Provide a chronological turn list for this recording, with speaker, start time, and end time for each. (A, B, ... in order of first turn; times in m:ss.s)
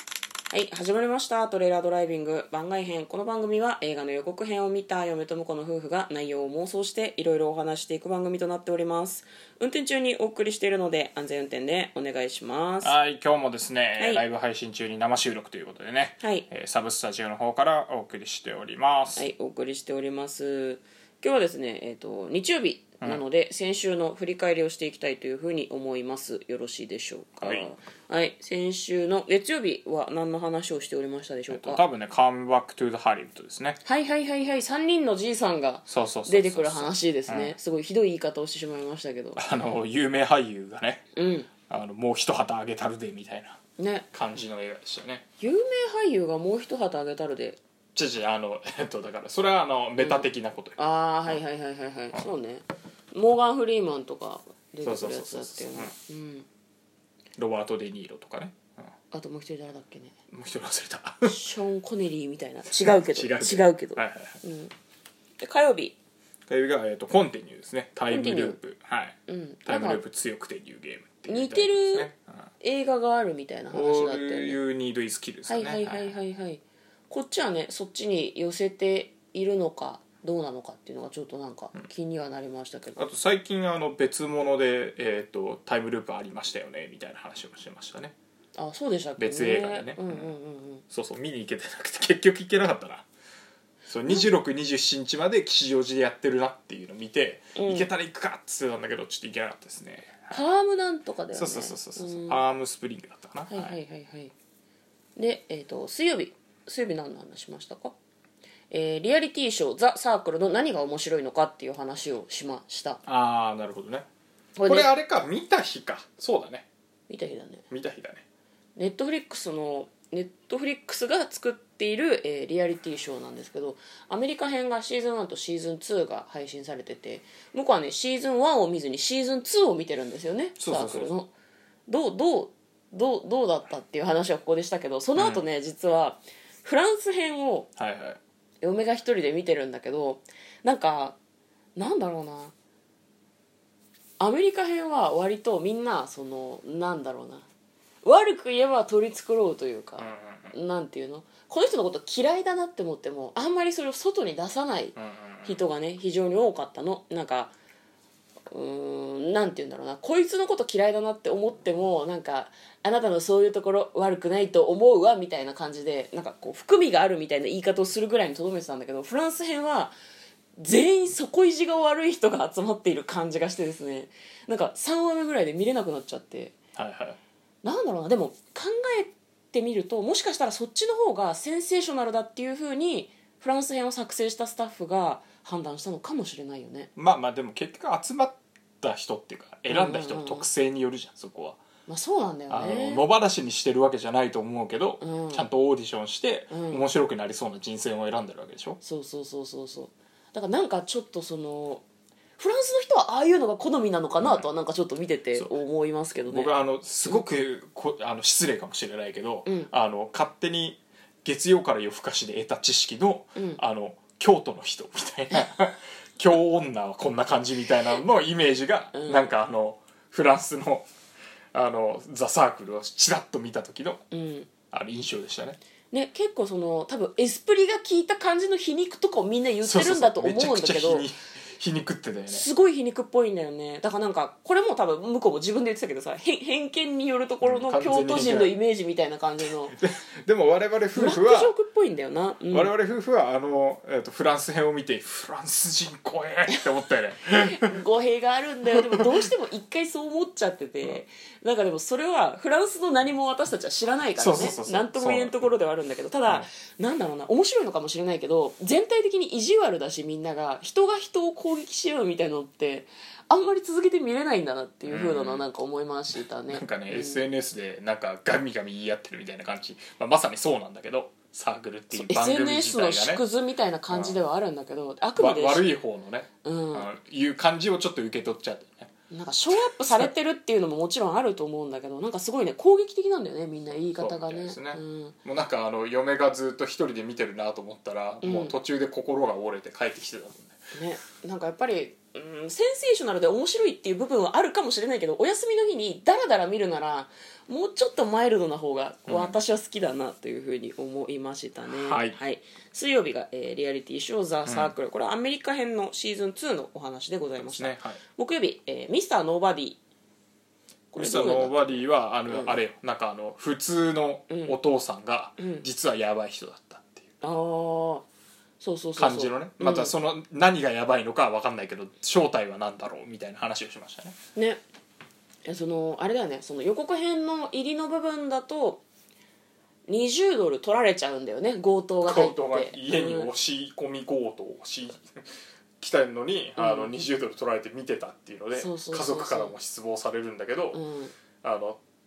0:00.5-0:13.0 A
0:12.8-0:19.3 B
0:14.0-0:14.2 A
0:16.2-0:16.5 A
0:19.2-0:31.8 A
0:27.4-0:27.7 B
0:31.5-0:33.8 B
0:33.8-0:39.4 A
0:35.9-0:37.5 B
0:39.4-0:41.0 B
0:41.1-0:41.5 A
0:41.7-0:43.6 B
0:43.8-0:44.1 A
0:44.1-0:45.2 B
0:45.4-0:47.6 A
0:48.0-0:51.4 B
0:50.0-0:56.5 A
0:54.8-0:55.9 B
0:57.4-0:58.9 B
0:59.1-1:00.2 A
1:00.3-1:01.4 B
1:01.2-1:04.7 A
1:02.7-1:04.4 B
1:05.4-1:06.0 A
1:06.5-1:12.4 B
1:08.1-1:08.6 A
1:09.3-1:10.0 A
1:11.3-1:12.1 A
1:12.6-1:14.6 A
1:13.7-1:16.1 B
1:15.5-1:23.0 A
1:23.0-1:28.1 B
1:28.6-1:30.8 A
1:29.2-1:30.3 B
1:30.9-1:33.0 B
1:33.9-1:40.4 B
1:37.6-1:37.9 A
1:40.3-1:42.4 A
1:41.3-1:43.8 B
1:43.5-1:44.3 A
1:45.2-1:47.9 A
1:48.7-1:53.0 A
1:53.1-1:54.1 B
1:54.6-1:54.9 A
1:54.7-1:56.7 B
1:57.1-1:57.6 A
1:57.7-1:58.2 B
1:58.8-2:11.3 A
2:10.6-2:11.1 B
2:11.9-2:17.7 A
2:15.2-2:15.4 B
2:17.8-2:18.2 B
2:18.6-2:21.2 A
2:21.8-2:22.5 A
2:24.2-2:27.5 A
2:28.0-2:37.5 A
2:30.0-2:30.6 B
2:35.0-2:35.6 B
2:38.5-2:49.9 A
2:50.6-2:56.6 A
2:56.8-2:57.2 B
2:57.6-3:06.9 A
3:07.0-3:11.6 B
3:09.7-3:10.5 A
3:11.9-3:13.0 A
3:12.5-3:18.8 B
3:15.0-3:15.5 A
3:16.5-3:16.8 A
3:18.8-3:21.8 A
3:22.4-3:27.2 A
3:24.2-3:24.5 B
3:26.2-3:40.9 B
3:29.5-3:29.7 A
3:38.9-3:39.3 A
3:41.5-3:44.0 B
3:44.1-3:44.5 A
3:44.7-3:45.6 B
3:45.9-3:51.1 A
3:49.6-3:52.5 B
3:52.3-3:59.8 A
3:57.4-3:58.5 B
3:59.7-4:01.5 B
4:01.0-4:02.7 A
4:02.5-4:07.8 B
4:07.3-4:27.2 A
4:14.2-4:15.5 B
4:24.9-4:25.5 B
4:26.5-4:33.2 B
4:31.9-4:35.7 A
4:33.9-4:34.2 B
4:35.2-4:38.9 B
4:36.4-4:36.9 A
4:39.1-4:45.2 A
4:39.5-4:40.1 B
4:44.0-4:50.6 B
4:48.2-4:48.6 A
4:50.7-5:09.8 A
4:59.1-4:59.4 B
5:01.7-5:02.2 B
5:04.4-5:04.7 B
5:07.4-5:08.0 B
5:10.9-5:12.6 A
5:11.0-5:17.0 B
5:14.3-5:14.6 A
5:15.4-5:15.6 A
5:17.2-5:18.1 A
5:18.6-5:19.9 A
5:19.0-5:24.2 B
5:24.4-5:24.6 A
5:25.4-5:28.8 A
5:29.9-5:33.3 A
5:32.0-5:35.2 B
5:35.8-5:40.8 B
5:36.6-5:36.9 A
5:38.6-5:39.5 A
5:40.7-5:41.1 A
5:41.4-5:41.8 B